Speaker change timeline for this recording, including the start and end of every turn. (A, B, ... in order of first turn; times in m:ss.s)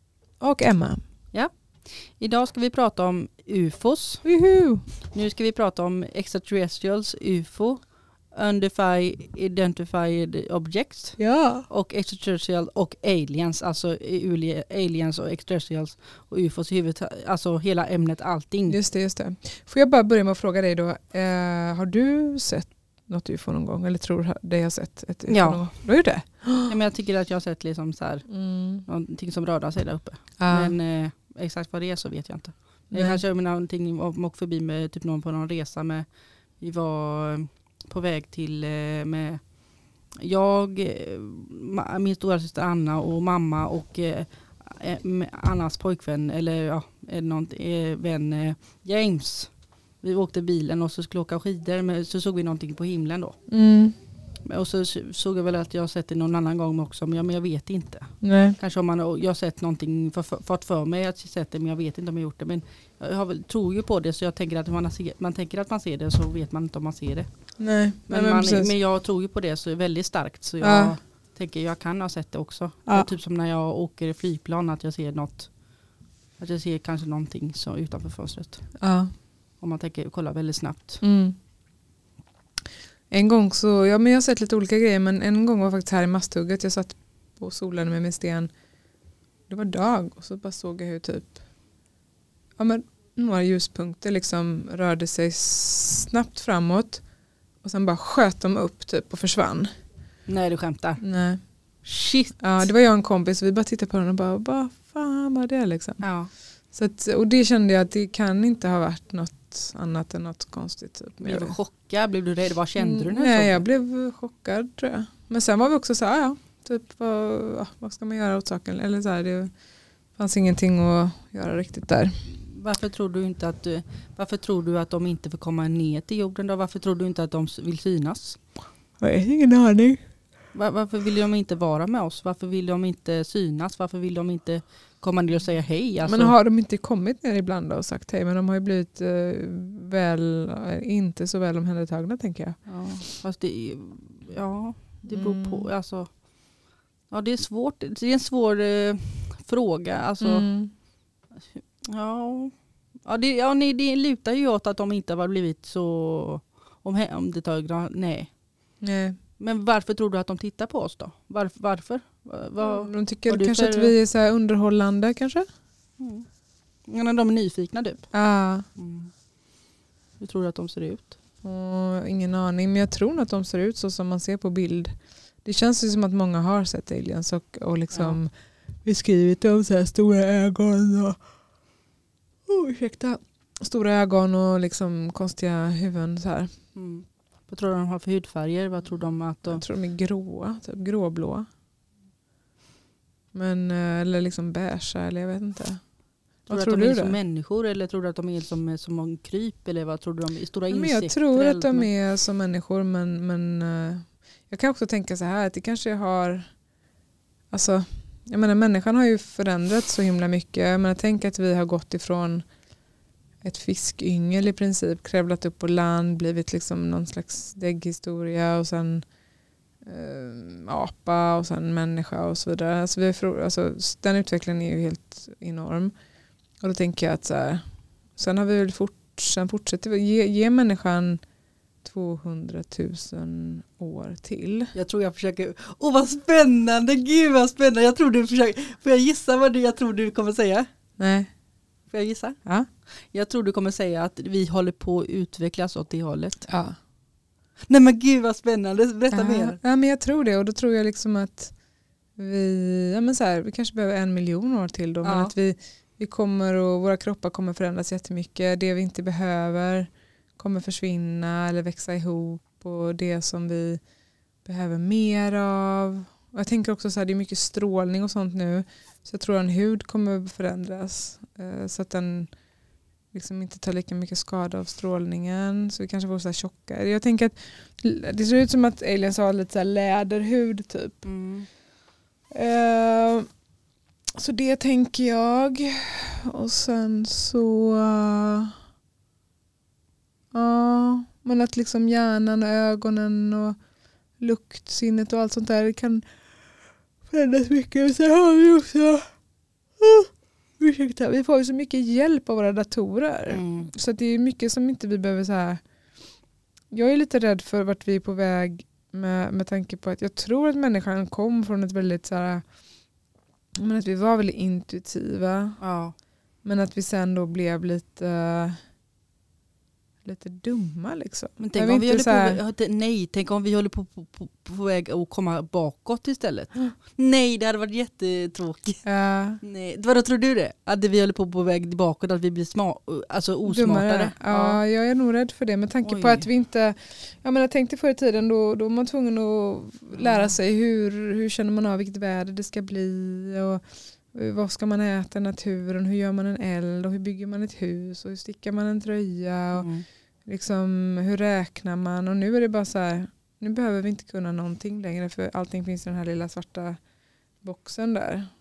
0:00.4-0:01.0 A
0:01.3-0:04.2 B
0:04.2-0:04.9 A
0:05.1-0:18.8 B
0:11.2-0:11.7 A
0:18.7-0:26.7 A
0:25.3-0:25.7 B
0:26.7-0:28.3 B
0:28.3-0:28.8 A
0:28.8-0:36.1 B
0:30.4-0:30.8 A
0:32.9-0:33.2 A
0:36.6-0:39.4 B
0:40.2-0:53.4 B
0:53.5-0:54.0 A
0:54.4-1:07.3 B
0:58.2-0:58.6 A
1:07.6-1:08.7 A
1:08.1-1:15.5 B
1:10.6-1:11.0 A
1:16.4-1:18.7 B
1:18.8-1:19.1 A
1:19.6-1:21.0 B
1:21.0-1:21.4 A
1:23.1-1:28.5 A
1:29.5-1:31.4 A
1:32.6-1:37.0 A
1:37.6-1:39.7 A
1:40.3-1:41.0 B
1:41.0-1:41.4 A
1:41.8-1:42.7 B
1:42.4-1:46.1 A
1:46.0-1:46.3 B
1:46.7-1:51.6 A
1:51.2-1:53.6 B
1:52.8-1:59.5 A
2:00.2-2:02.1 A
2:02.3-2:08.4 B
2:09.0-2:10.0 A
2:10.5-2:16.4 B
2:16.0-2:23.1 A
2:22.7-2:26.1 B
2:25.1-2:25.7 A
2:27.1-2:30.5 B
2:30.2-2:30.7 A
2:31.6-2:32.5 B
2:33.0-2:38.3 B
2:38.8-2:39.2 A
2:39.4-2:43.9 B
2:42.6-2:45.5 A
2:46.0-2:46.3 B
2:46.9-2:48.1 B
2:48.1-2:48.7 A
2:48.8-2:49.1 B
2:50.2-2:51.2 B
2:51.4-3:01.2 A
2:57.9-2:58.2 B
3:02.5-3:06.5 A
3:06.8-3:09.6 B
3:09.4-3:11.5 A
3:13.3-3:15.8 A
3:16.5-3:17.2 A
3:16.5-3:21.9 B
3:20.7-3:26.5 A
3:27.5-3:32.5 A
3:33.4-3:39.0 A
3:39.8-3:45.9 A
3:46.6-3:47.6 A
3:48.2-3:51.2 A
3:51.8-3:54.7 A
3:54.7-4:00.7 B
4:01.0-4:01.3 A
4:01.9-4:02.4 B
4:03.1-4:06.5 B
4:06.5-4:06.8 A
4:07.7-4:09.6 B
4:09.1-4:11.5 A
4:12.2-4:23.8 A
4:15.0-4:15.3 B
4:24.4-4:32.3 A
4:33.1-4:41.1 A
4:41.0-4:41.5 B
4:42.3-4:43.3 A
4:44.2-4:48.6 A
4:50.3-4:53.6 A
4:54.2-4:56.0 A
4:57.1-4:59.1 A
4:59.8-5:05.6 A
5:03.3-5:03.7 B
5:06.7-5:12.4 A
5:13.6-5:15.6 A
5:15.6-5:15.9 B
5:16.4-5:18.6 A
5:20.0-5:22.4 A
5:21.4-5:28.8 B
5:28.8-5:29.4 A
5:29.4-5:34.6 B
5:33.4-5:49.7 A
5:35.8-5:36.3 B
5:39.9-5:40.3 B
5:49.5-5:49.9 B
5:50.3-5:56.8 A
5:57.4-5:58.3 A